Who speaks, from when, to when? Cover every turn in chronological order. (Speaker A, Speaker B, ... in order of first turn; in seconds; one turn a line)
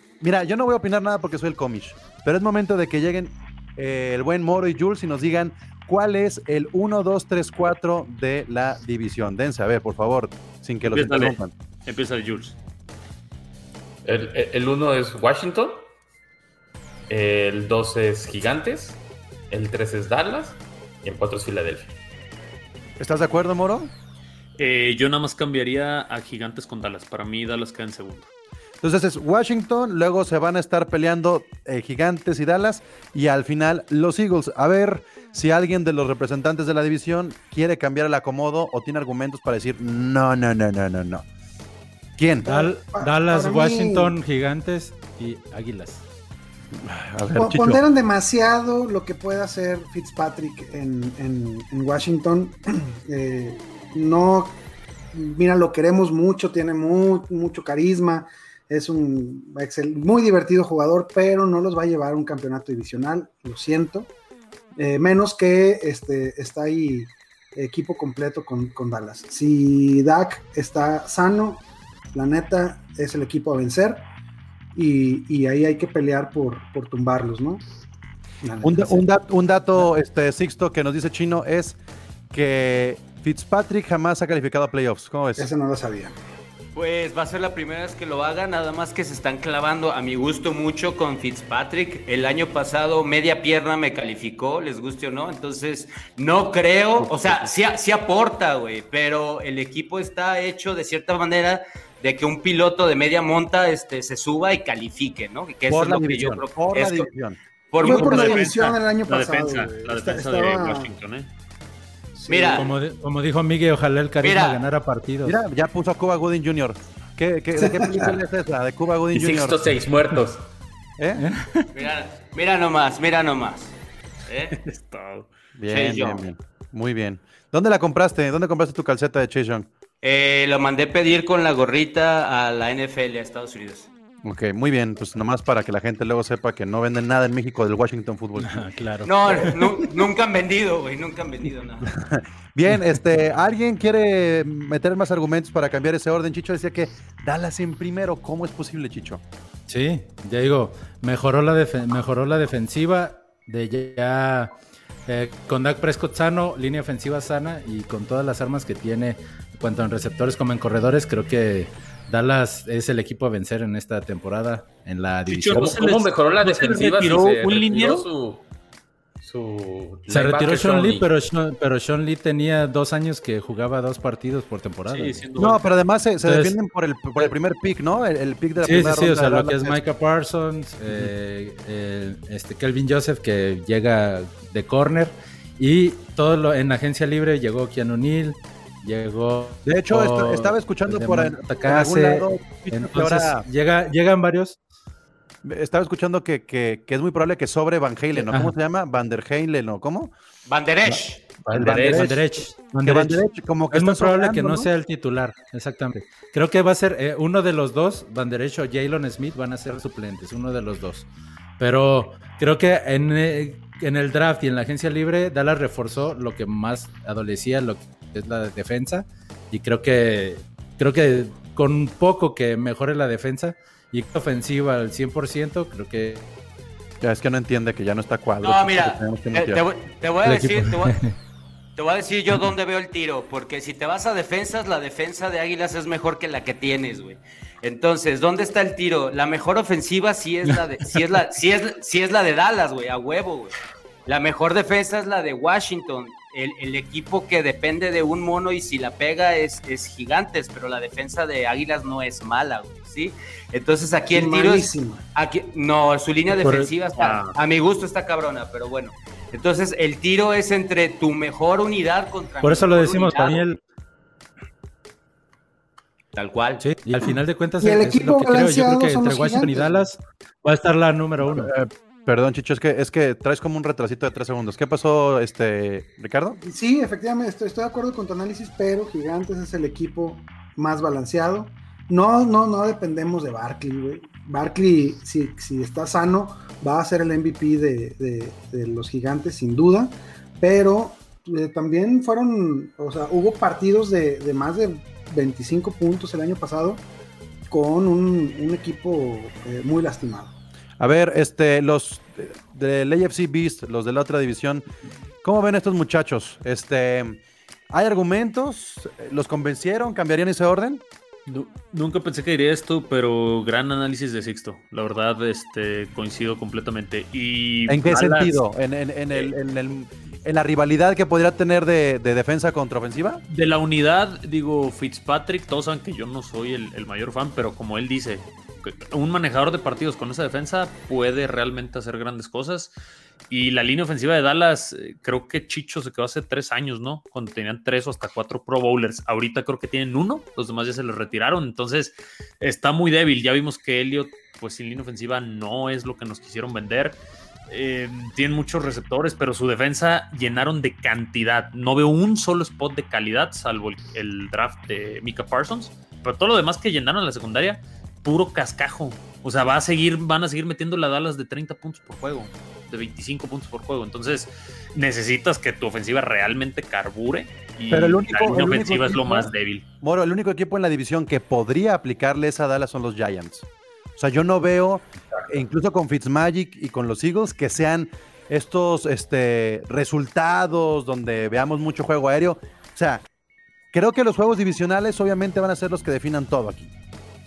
Speaker A: 0.2-11.5
Speaker B: 10.8-12.6
Speaker C: 14.1-15.9
Speaker C: 17.1-21.9
Speaker A: 23.0-23.9
Speaker B: 24.6-28.3
Speaker A: 28.8-41.2
Speaker A: 42.2-42.5
Speaker D: 42.5-44.1
Speaker E: 42.5-46.0
Speaker A: 46.7-47.8
Speaker D: 47.4-54.6
Speaker D: 55.1-64.1
Speaker D: 64.8-71.6
Speaker D: 72.1-74.1
Speaker D: 74.8-77.6
Speaker D: 78.4-79.0
Speaker A: 78.6-81.8
Speaker A: 82.3-85.5
Speaker D: 85.4-86.2
Speaker F: 86.8-107.1
Speaker A: 97.0-97.5
Speaker A: 105.7-108.0
Speaker F: 107.7-108.6
Speaker D: 107.8-110.9
Speaker B: 107.8-111.3
Speaker D: 112.2-112.7
Speaker F: 112.3-112.7
Speaker E: 112.5-115.4
Speaker F: 114.2-114.6
Speaker A: 115.2-119.6
Speaker D: 117.6-118.1
Speaker C: 119.1-120.4
Speaker A: 121.0-121.2
Speaker E: 121.2-121.7
Speaker F: 121.7-123.8
Speaker F: 124.3-124.5
Speaker B: 124.5-125.3
Speaker A: 125.6-129.7
Speaker F: 125.7-126.3
Speaker F: 130.0-133.9
Speaker A: 134.2-138.7
Speaker E: 138.4-139.7
Speaker F: 139.1-141.9
Speaker A: 141.8-149.2
Speaker E: 149.7-154.6
Speaker E: 155.1-165.7
Speaker B: 165.3-168.1
Speaker C: 165.5-168.4
Speaker C: 169.2-171.1
Speaker E: 170.1-175.2
Speaker B: 174.9-175.6
Speaker A: 175.4-179.8
Speaker E: 176.2-176.6
Speaker E: 178.6-194.6
Speaker A: 189.7-193.5
Speaker A: 195.4-200.1
Speaker E: 198.2-198.5
Speaker F: 200.5-201.2
Speaker A: 200.9-202.2
Speaker C: 201.4-202.2
Speaker E: 201.9-211.1
Speaker A: 202.8-204.7
Speaker E: 211.6-226.3
Speaker A: 227.0-229.6
Speaker F: 228.4-231.0
Speaker E: 230.2-231.2
Speaker F: 231.8-263.4
Speaker D: 254.1-255.1
Speaker B: 256.3-257.4
Speaker E: 262.4-263.6
Speaker F: 266.1-266.6
Speaker E: 266.6-271.5
Speaker D: 267.0-269.9
Speaker A: 271.2-276.4
Speaker D: 276.4-296.8
Speaker D: 297.5-300.3
Speaker A: 300.8-304.6
Speaker A: 305.2-307.2
Speaker A: 307.7-310.8
Speaker B: 311.3-318.4
Speaker A: 317.7-323.2
Speaker B: 323.3-332.7
Speaker B: 333.3-347.0
Speaker B: 347.5-369.6
Speaker A: 367.7-373.5
Speaker A: 374.0-383.1
Speaker A: 383.7-386.7